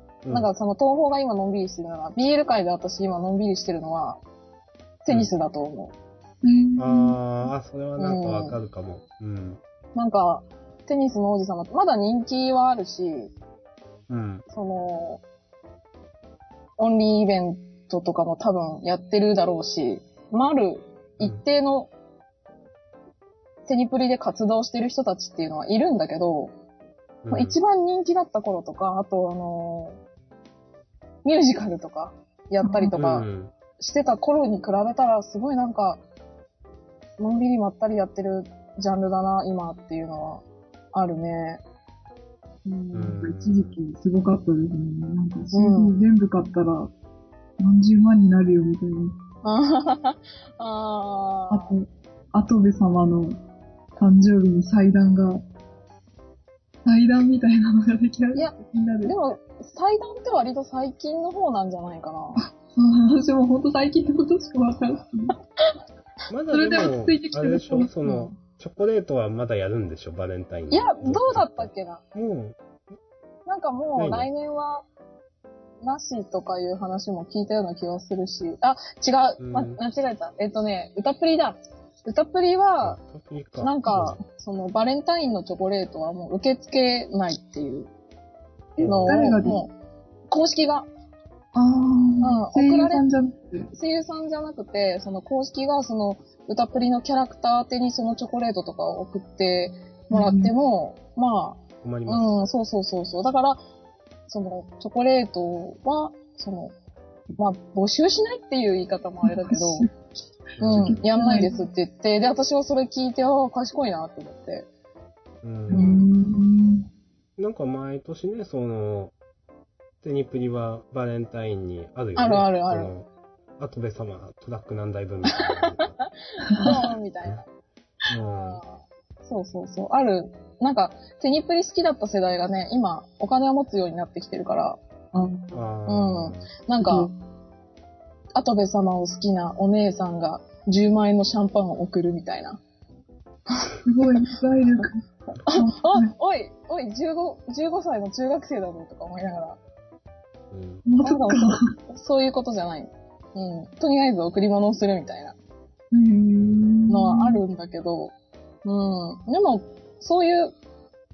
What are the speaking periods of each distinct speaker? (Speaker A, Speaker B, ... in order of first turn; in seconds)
Speaker A: 0.3-4.2, 5.0-5.9, 8.0-8.6, 9.9-13.3, 14.5-15.2, 16.8-21.9, 23.7-26.5, 27.3-30.0, 31.2-36.0, 37.2-41.6, 45.5-46.0, 49.4-51.7, 58.4-62.4, 70.7-72.0, 73.5-74.9, 75.8-83.0, 83.6-87.9, 88.8-89.7, 90.3-90.9, 92.2-93.0, 93.7-103.6, 104.3-106.7, 107.4-109.9, 110.7-114.7, 115.7-116.1, 122.2-122.9, 125.3-125.8, 126.5-127.5, 128.3-134.8, 135.9-137.1, 138.3-142.6, 145.4-149.6, 151.0-155.3, 156.9-158.1, 158.7-160.5
Speaker B: 6.4-7.2, 32.6-32.9, 42.6-46.9, 47.6-49.2, 51.5-53.4, 54.0-55.4, 56.9-59.1, 62.7-65.3, 66.5-68.2, 88.8-89.6, 91.5-93.7, 100.1-100.5, 109.2-109.9, 110.6-111.6, 115.7-116.9, 126.5-126.8, 135.1-135.6, 136.8-137.1, 143.8-145.0, 145.5-146.1, 150.8-151.7, 155.9-157.4
Speaker C: 6.8-9.6, 14.1-14.4, 27.2-27.6, 33.0-33.5, 42.9-43.8, 66.3-72.6, 74.0-74.3, 79.4-79.8, 82.8-84.2, 88.8-89.3, 101.8-102.4, 110.6-111.0, 115.4-116.1, 117.4-119.1, 120.0-123.1, 123.6-126.0, 128.1-128.6, 135.5-136.5, 150.5-150.8, 156.4-156.7